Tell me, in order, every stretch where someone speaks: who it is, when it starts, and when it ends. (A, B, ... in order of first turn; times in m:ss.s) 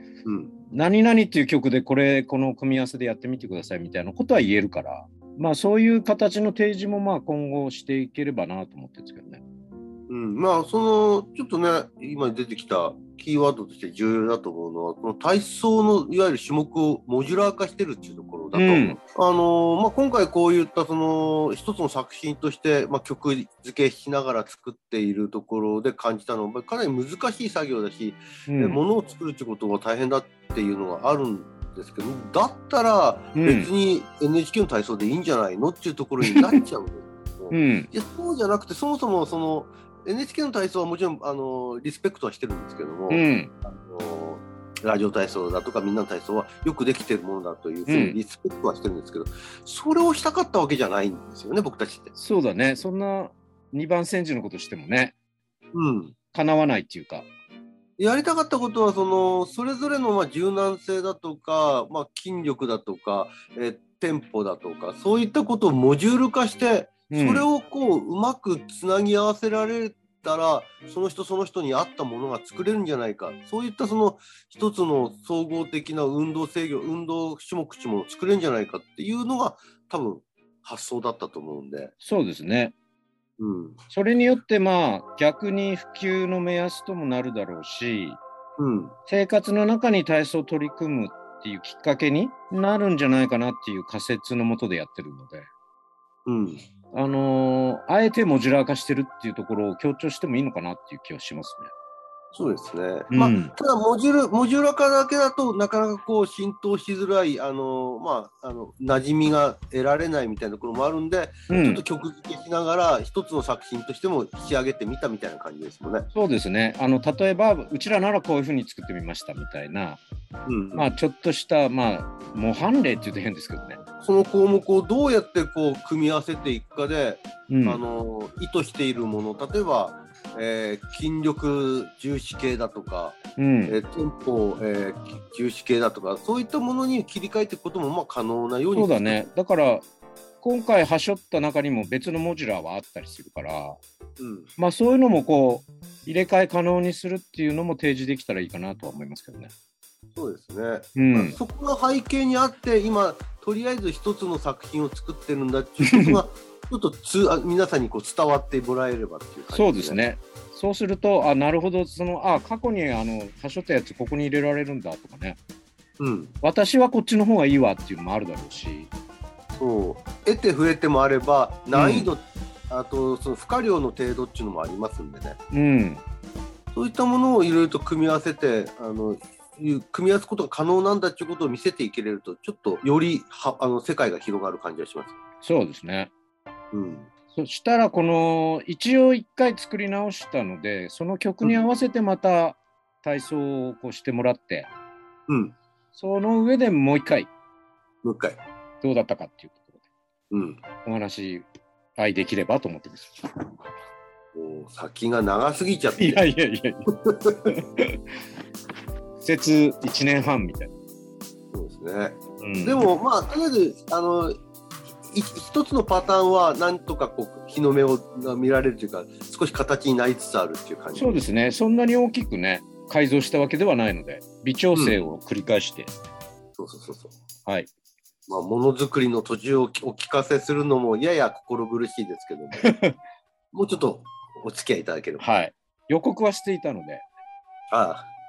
0:00.2-0:00.5 A
0:00.7-0:09.4 B
0:10.1-0:52.1 A
0:18.5-0:19.0 B
0:28.5-0:28.8 B
0:33.3-0:33.7 B
0:37.5-0:37.9 B
0:43.1-0:43.5 B
0:47.9-0:48.2 B
0:52.1-0:55.1 B
0:55.7-0:56.2 A
0:56.3-0:57.3 B
0:58.0-1:21.9 A
1:07.1-1:07.5 B
1:22.0-1:22.7 B
1:23.4-1:23.8 A
1:23.9-1:28.2 B
1:28.6-1:28.9 A
1:29.1-1:35.5 B
1:36.3-1:36.6 A
1:36.9-1:41.7 B
1:42.3-1:56.1 A
1:43.1-1:43.5 B
1:51.5-1:51.8 B
1:56.1-2:00.0 B
2:00.5-2:01.0 A
2:00.7-2:03.8 B
2:04.0-2:19.3 A
2:07.5-2:07.8 B
2:13.4-2:13.8 B
2:18.7-2:19.8 B
2:20.4-2:23.8 B
2:24.2-2:24.5 A
2:24.6-2:29.5 B
2:30.2-2:40.0 A
2:31.0-2:31.4 B
2:35.8-2:36.2 B
2:39.5-2:45.4 B
2:46.0-2:46.3 A
2:46.4-2:48.9 B
2:49.6-2:55.4 A
2:51.7-2:52.1 B
2:55.5-2:56.0 B
2:56.7-3:05.2 A
3:05.4-3:06.1 B
3:06.7-3:07.1 A
3:07.3-3:14.7 B
3:15.3-3:15.6 A
3:15.9-3:17.3 B
3:18.0-3:18.4 A
3:18.8-3:19.8 B
3:20.3-3:20.6 A
3:20.8-3:23.3 B
3:24.3-3:26.2 A
3:26.0-3:26.9 B
3:26.9-3:27.5 A
3:27.4-3:28.0 B
3:29.2-3:30.7 B
3:31.5-3:34.3 A
3:32.4-3:32.9 B
3:35.1-3:41.2 A
3:41.0-3:45.9 B
3:44.7-3:45.0 A
3:46.6-3:47.1 A
3:48.3-3:52.6 A
3:52.6-3:52.9 B
3:53.5-3:55.2 A
3:55.2-3:57.0 B
3:57.7-3:58.1 A